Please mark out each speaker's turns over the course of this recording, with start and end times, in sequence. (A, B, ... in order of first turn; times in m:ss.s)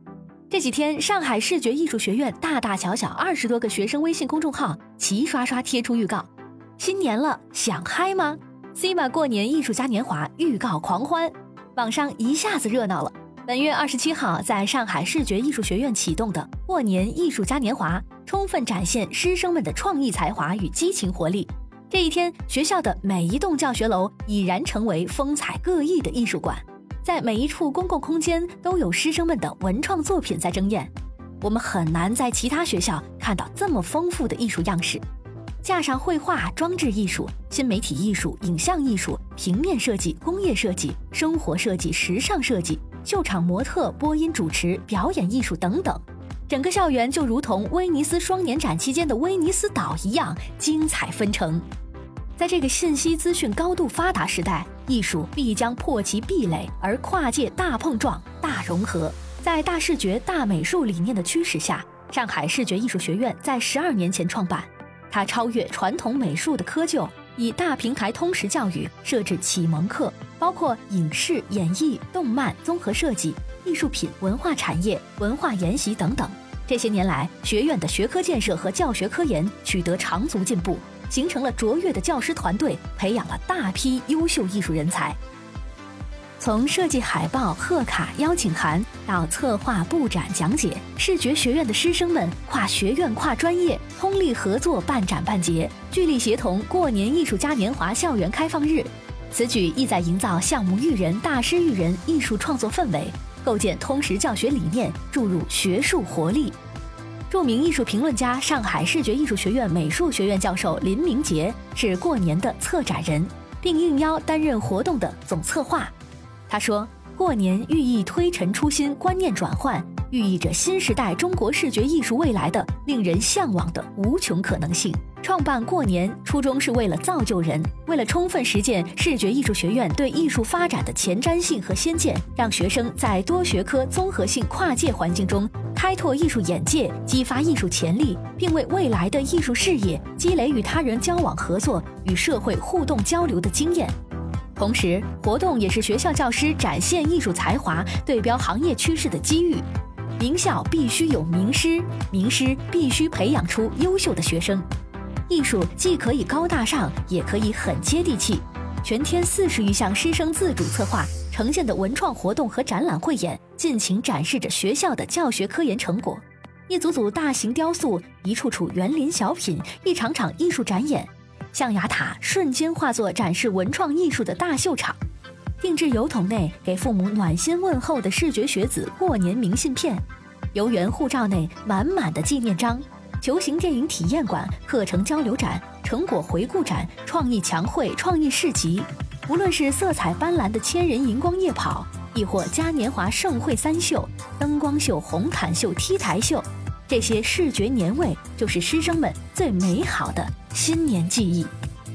0:00.5-0:35.0 A
0:35.6-0:51.7 A
0:52.4-1:25.2 A
1:26.4-1:46.6 A
1:47.3-1:55.9 A
1:56.5-2:24.0 A
2:24.6-2:29.7 A
2:30.2-2:34.7 A
2:35.3-2:55.0 A
2:55.6-3:21.5 A